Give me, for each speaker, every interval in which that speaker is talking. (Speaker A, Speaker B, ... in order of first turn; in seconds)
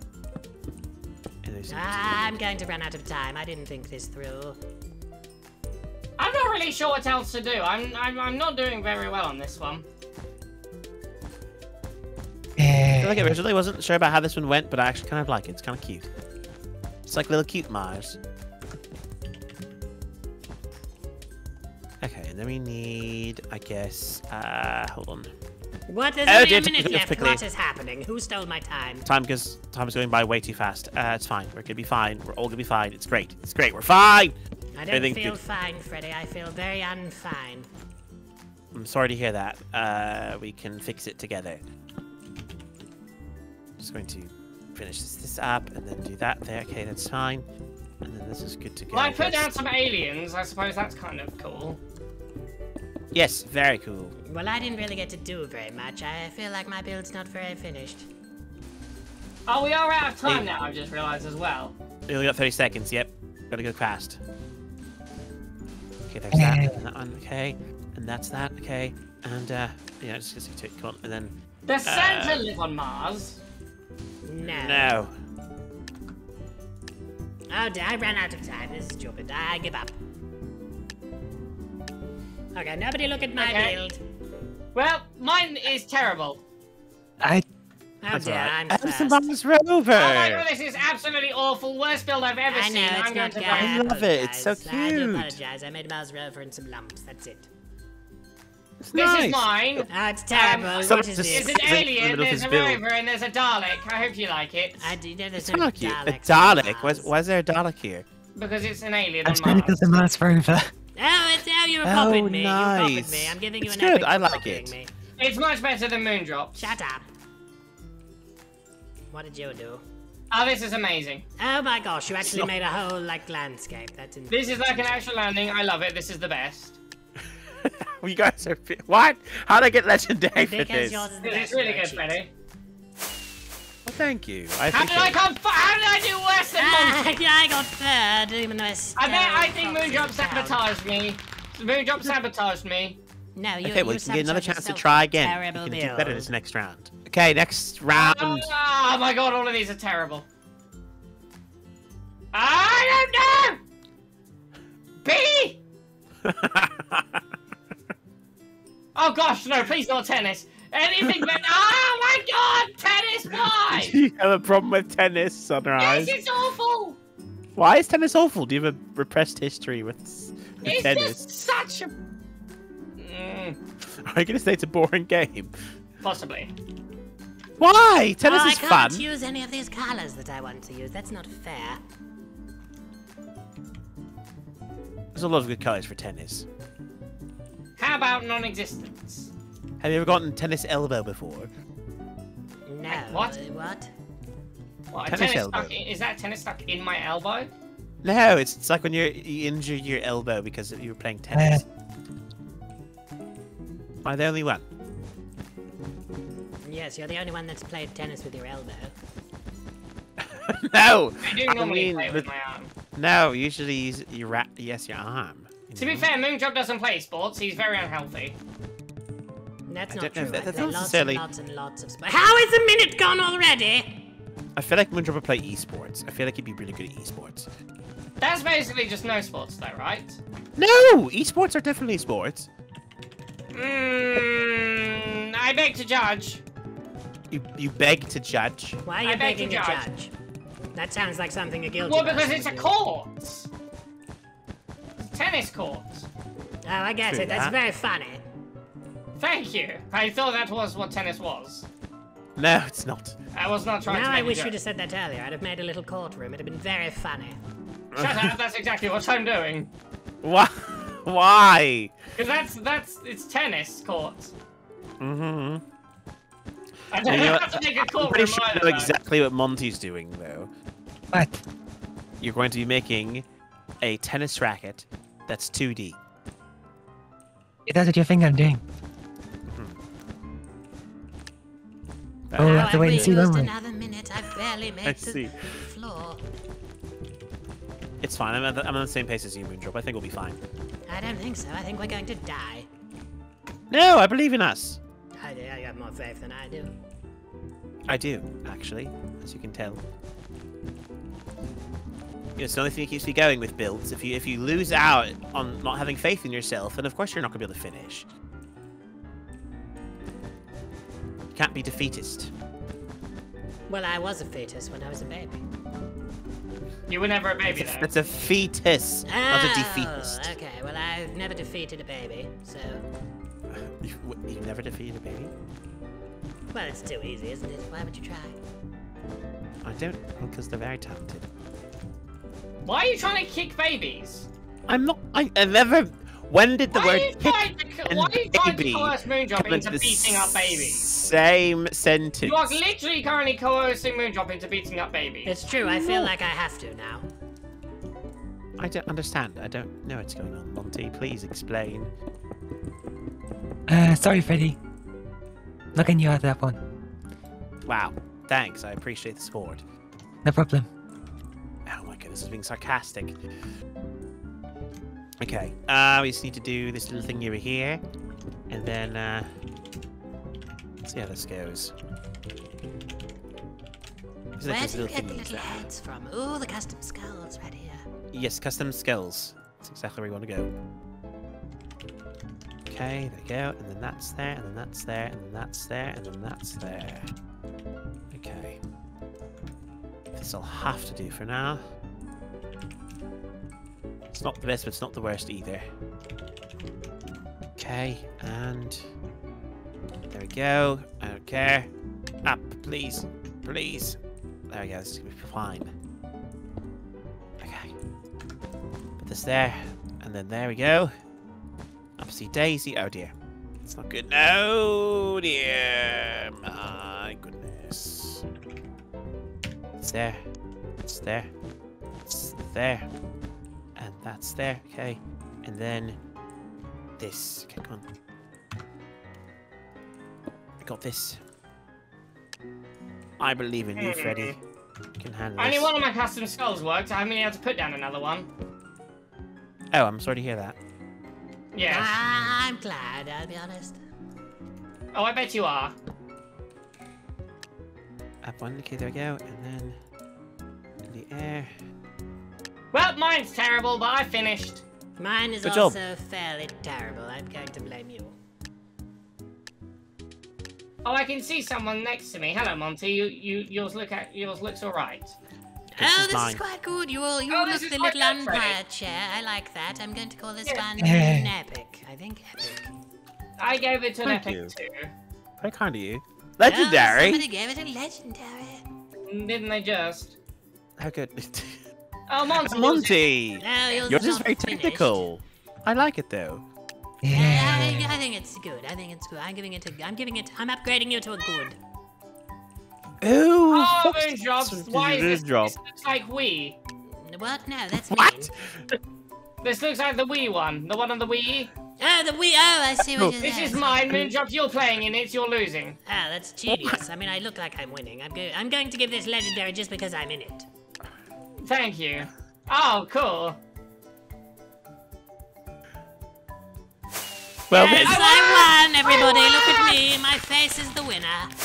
Speaker A: 1.4-2.4, 13.0-16.1, 17.0-18.2, 22.0-25.3, 26.3-27.4, 29.1-34.4, 34.9-35.4, 38.7-41.6, 43.8-47.5, 48.0-49.5, 53.1-54.2, 62.1-64.2, 66.1-72.5, 74.6-75.1, 88.1-90.5, 93.5-95.4, 98.8-99.5, 100.8-102.8, 105.4-108.1, 111.8-114.8, 122.2-122.5, 127.6-131.1, 133.8-135.2, 143.6-148.5, 156.2-157.2, 163.7-166.2, 167.6-171.2, 174.0-175.5, 177.6-179.1, 185.1-186.5, 189.8-191.5, 195.1-195.8, 198.0-201.7, 204.0-204.7, 210.2-212.3, 212.9-216.1, 219.9-221.2, 224.6-227.5, 230.6-232.5, 237.3-238.8, 247.1-247.6, 252.4-253.2, 257.9-258.3, 260.2-261.9, 265.0-265.6, 267.0-270.5, 272.2-273.3, 273.8-276.0, 279.5-279.8, 282.3-283.2, 284.8-285.7, 288.0-290.4, 293.7-294.8, 297.9-299.8, 302.4-308.1, 311.3-312.3, 317.5-320.4, 323.5-325.3, 329.6-331.3, 334.7-342.6, 345.6-346.1, 348.6-351.9, 357.7-359.6, 361.7-363.2, 365.2-367.8, 368.5-369.3, 370.8-371.8, 374.4-375.7, 378.1-380.5, 382.7-387.1, 388.1-388.6, 390.1-391.6, 394.1-395.7, 397.6-398.9, 400.1-401.7, 402.2-404.0, 404.5-405.7, 407.4-407.8, 409.0-410.9, 412.0-418.2, 419.8-420.2, 420.8-421.3, 422.1-422.9, 423.8-426.0, 427.0-427.9, 430.6-431.2, 433.2-434.4, 435.0-435.7, 439.7-440.6, 448.2-449.8, 450.9-451.5, 455.4-455.8, 465.8-466.4, 474.0-474.5, 475.4-477.2, 480.8-481.6, 482.4-486.4, 493.0-495.6, 497.9-498.8, 502.9-503.2, 506.5-506.8, 517.5-518.1
Speaker B: 1.7-4.6, 25.9-29.1, 34.7-37.7, 54.3-58.1, 74.2-75.0, 77.5-79.9, 82.5-84.0, 88.0-89.3, 92.5-97.5, 99.9-101.9, 104.8-107.2, 111.0-114.9, 116.6-117.1, 119.1-119.8, 121.4-125.0, 130.4-132.2, 136.6-140.7, 143.4-146.3, 178.2-181.8, 192.7-193.9, 206.7-208.9, 219.7-224.0, 238.8-240.1, 240.8-242.7, 246.7-248.2, 253.8-257.4, 282.4-286.2, 290.9-292.7, 295.2-296.7, 313.7-315.4, 319.1-322.8, 326.5-328.4, 345.2-347.1, 374.4-377.8, 441.7-443.8, 455.0-458.1, 465.8-472.7, 476.4-478.6, 483.4-485.1, 487.1-491.6, 496.9-498.3, 501.8-504.0, 505.9-510.5, 517.5-521.3
Speaker C: 6.2-9.9, 48.9-51.8, 59.5-61.8, 71.7-73.4, 83.4-83.8, 84.8-86.4, 90.0-93.8, 98.9-105.0, 108.4-109.8, 115.2-116.8, 120.3-121.2, 124.3-126.8, 131.2-132.3, 134.7-137.2, 139.0-143.0, 147.9-150.3, 152.3-153.6, 155.0-155.6, 158.9-164.0, 165.8-167.0, 170.6-171.9, 173.0-173.6, 176.0-176.5, 187.8-189.3, 192.9-193.4, 194.9-197.5, 211.2-212.7, 215.8-218.4, 228.2-230.2, 233.5-236.4, 239.0-239.9, 241.8-243.5, 245.0-246.1, 249.2-251.7, 253.3-254.6, 258.0-259.7, 262.1-264.3, 266.9-268.9, 316.9-317.9, 332.6-334.3, 336.7-340.9, 342.2-345.5, 433.8-434.4, 435.4-438.3, 441.5-442.0, 444.9-445.8, 452.7-454.6, 460.8-465.1, 467.3-468.6, 473.4-474.9, 479.0-480.2, 482.1-483.0, 493.5-496.6, 499.4-501.5, 503.2-505.8, 511.4-513.4, 517.5-519.8
Speaker D: 12.6-13.3, 66.3-66.7, 109.2-110.7, 271.1-271.4, 277.7-278.6, 282.4-283.5, 353.7-354.6, 355.7-356.6, 360.2-360.7, 470.8-471.3, 487.0-487.9